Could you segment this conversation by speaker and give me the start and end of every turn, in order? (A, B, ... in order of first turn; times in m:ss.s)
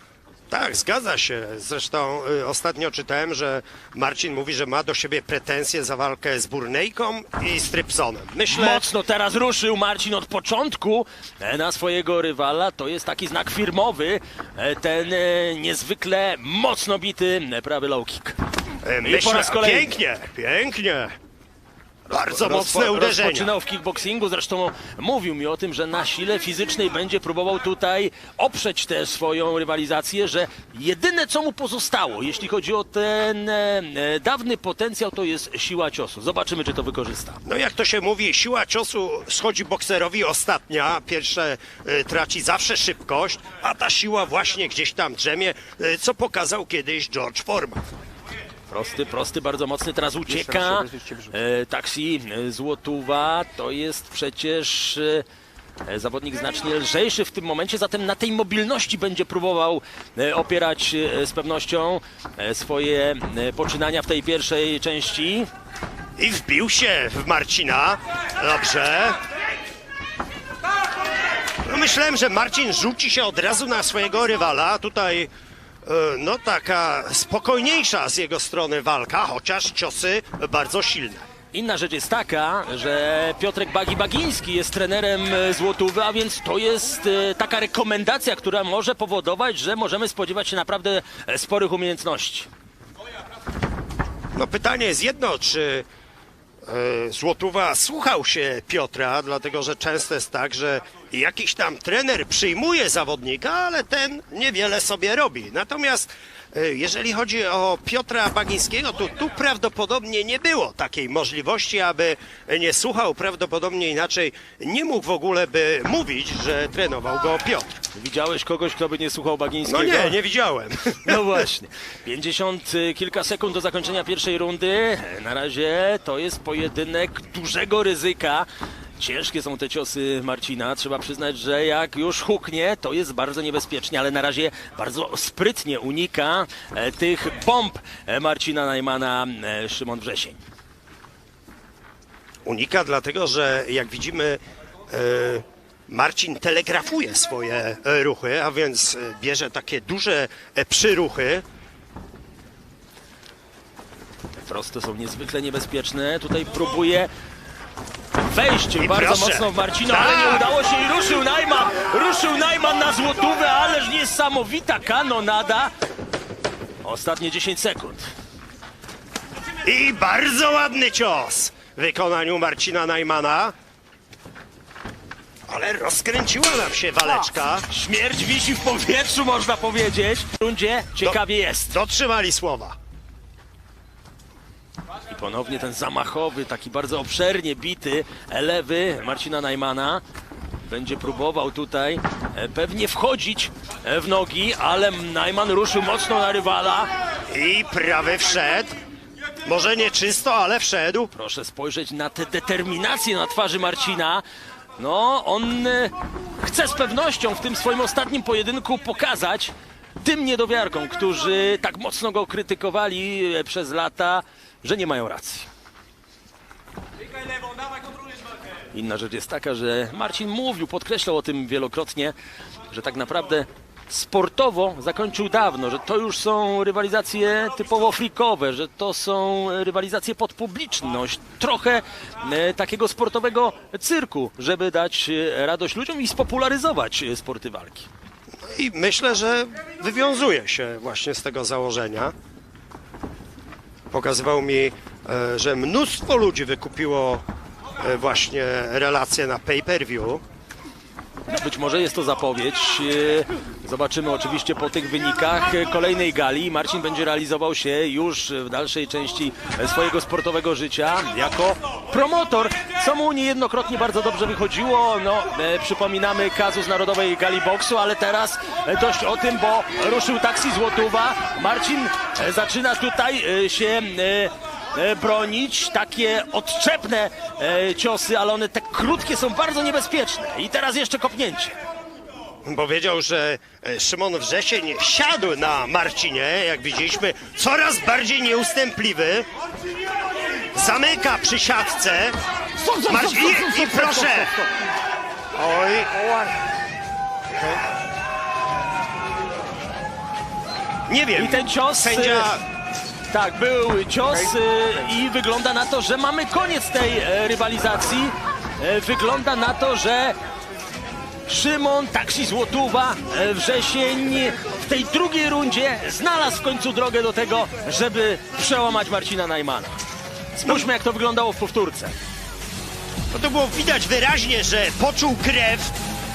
0:00.5-0:08.8 A
0:08.5-0:18.4 B
0:18.8-0:21.1 A
0:19.0-0:19.9 B
0:22.1-0:37.4 B
0:22.1-0:23.5 A
0:37.4-0:47.8 A
0:48.7-0:55.2 B
0:55.8-1:05.5 B
1:06.2-1:09.2 A
1:11.6-1:15.3 A
1:15.8-1:21.2 A
1:21.5-1:32.5 B
1:34.3-1:35.8 A
1:36.7-1:57.8 A
1:57.9-2:00.2 B
1:59.6-2:01.4 A
2:01.0-2:08.5 B
2:09.0-2:20.4 B
2:22.4-2:31.4 A
2:34.4-2:37.1 B
2:38.2-2:45.7 B
2:38.8-2:40.5 A
2:46.8-2:48.0 B
2:49.6-2:53.5 A
2:55.5-2:57.6 A
2:57.7-3:01.7 B
3:01.0-3:02.7 A
3:05.1-3:10.0 B
3:10.7-3:16.9 B
3:17.3-3:18.7 A
3:19.4-3:21.1 A
3:21.1-3:24.2 B
3:24.8-3:35.5 B
3:38.7-3:42.1 B
3:42.7-3:57.9 B
3:58.5-4:02.1 A
4:03.9-4:07.2 A
4:07.8-4:10.2 A
4:11.3-4:41.5 B
4:42.4-4:49.2 A
4:50.5-4:52.2 A
4:52.7-4:54.4 A
4:55.3-4:56.2 A
5:00.9-5:02.4 A
5:01.2-5:02.3 B
5:03.1-5:10.2 B
5:11.3-5:19.8 B
5:20.4-5:21.9 B
5:23.1-5:25.7 A